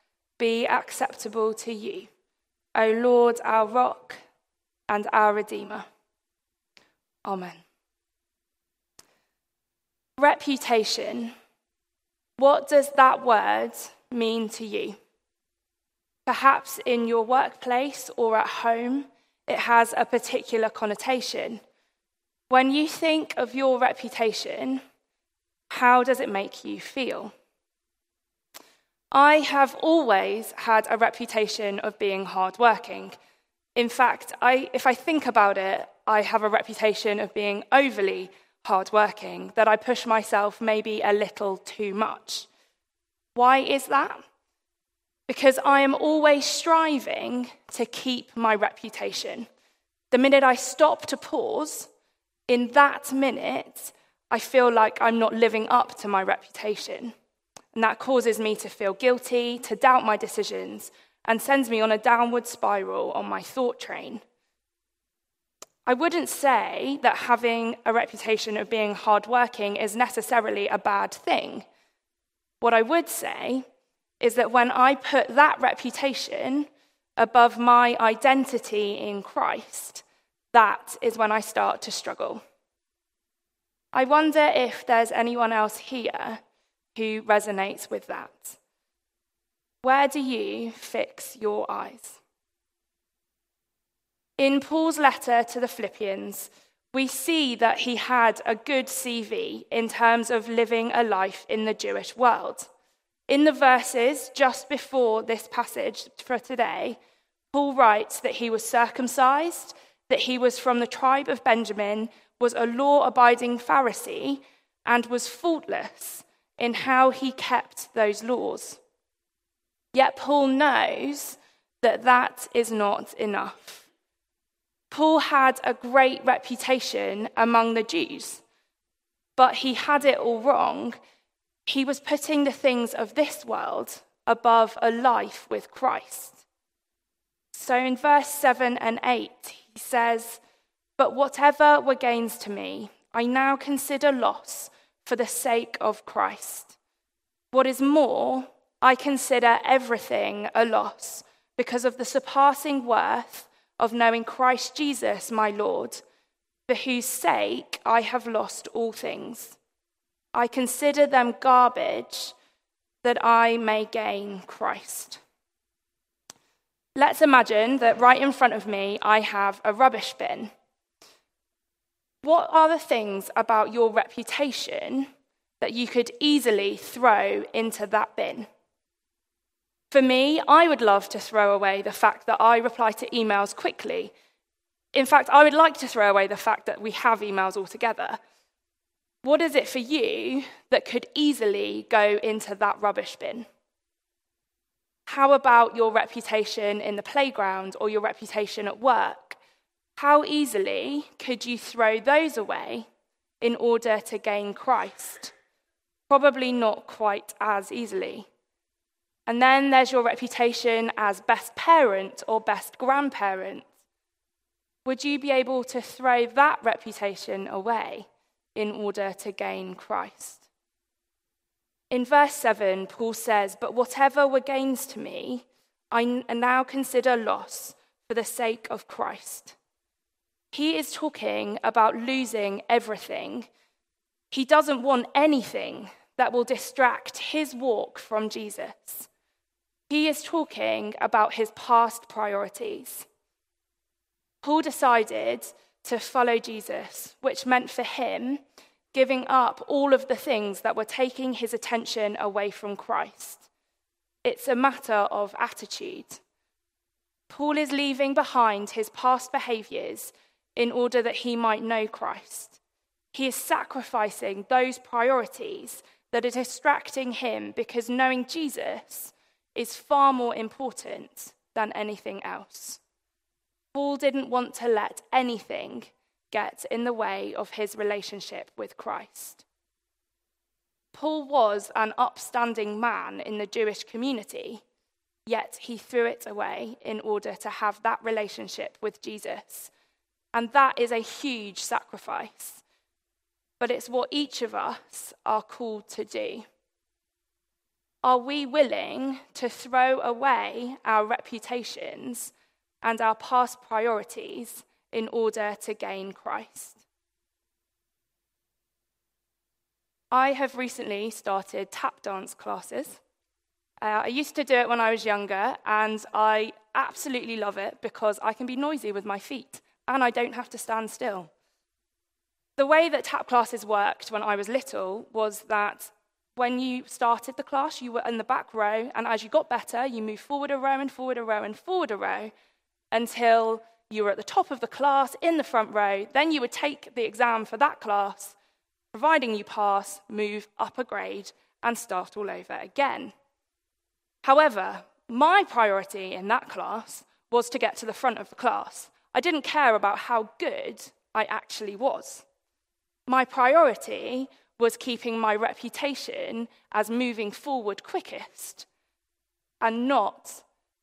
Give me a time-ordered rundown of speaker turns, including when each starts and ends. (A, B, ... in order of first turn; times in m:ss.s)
0:00.4-0:02.1 A
0:02.7-0:04.2 A
0:04.9-0:05.8 A
0:07.2-0:07.6 A
0:10.2-0:11.3 A
0:12.4-0:15.0 A
0:16.2-0:21.6 A
0:22.5-0:24.8 A
0:25.7-0:27.3 A
0:29.1-0:33.2 A
0:33.8-0:42.5 A
0:43.3-0:44.2 A
0:45.3-0:49.5 A
0:50.1-0:51.9 A
0:52.5-0:57.1 A
0:57.7-1:04.2 A
1:05.8-1:11.6 A
1:12.6-1:13.6 A
1:14.2-1:22.4 A
1:23.9-1:26.4 A
1:26.9-1:28.6 A
1:29.8-1:32.2 A
1:34.4-1:42.7 A
1:43.3-1:47.0 A
1:47.5-1:58.8 A
1:59.9-2:03.9 A
2:04.9-2:08.4 A
2:09.4-2:11.0 A
2:11.6-2:16.4 A
2:17.5-2:20.4 A
2:21.0-2:26.8 A
2:27.5-2:36.0 A
2:36.7-2:39.6 A
2:40.3-2:42.3 A
2:43.0-2:45.2 A
2:47.0-2:50.5 A
2:52.2-2:55.1 A
2:55.6-2:58.5 A
2:59.9-3:04.1 A
3:04.9-3:08.2 A
3:09.2-3:13.5 A
3:15.1-3:19.4 A
3:20.0-3:22.8 A
3:23.4-3:25.3 A
3:26.1-3:28.3 A
3:29.3-3:33.7 A
3:34.8-3:40.5 A
3:41.9-3:49.6 A
3:50.5-3:53.5 A
3:54.3-3:59.1 A
3:59.9-4:03.1 A
4:04.4-4:08.4 A
4:08.9-4:13.5 A
4:14.2-4:16.2 A
4:17.3-4:22.6 A
4:23.1-4:32.8 A
4:33.7-4:39.4 A
4:40.9-4:44.6 A
4:45.3-4:49.7 A
4:50.3-4:52.6 A
4:53.6-4:56.4 A
4:58.0-5:06.8 A
5:10.1-5:13.0 A
5:13.8-5:21.3 A
5:22.6-5:32.3 A
5:32.9-5:38.4 A
5:38.9-5:43.1 A
5:44.2-5:52.2 A
5:53.1-5:58.7 A
5:59.6-6:00.4 A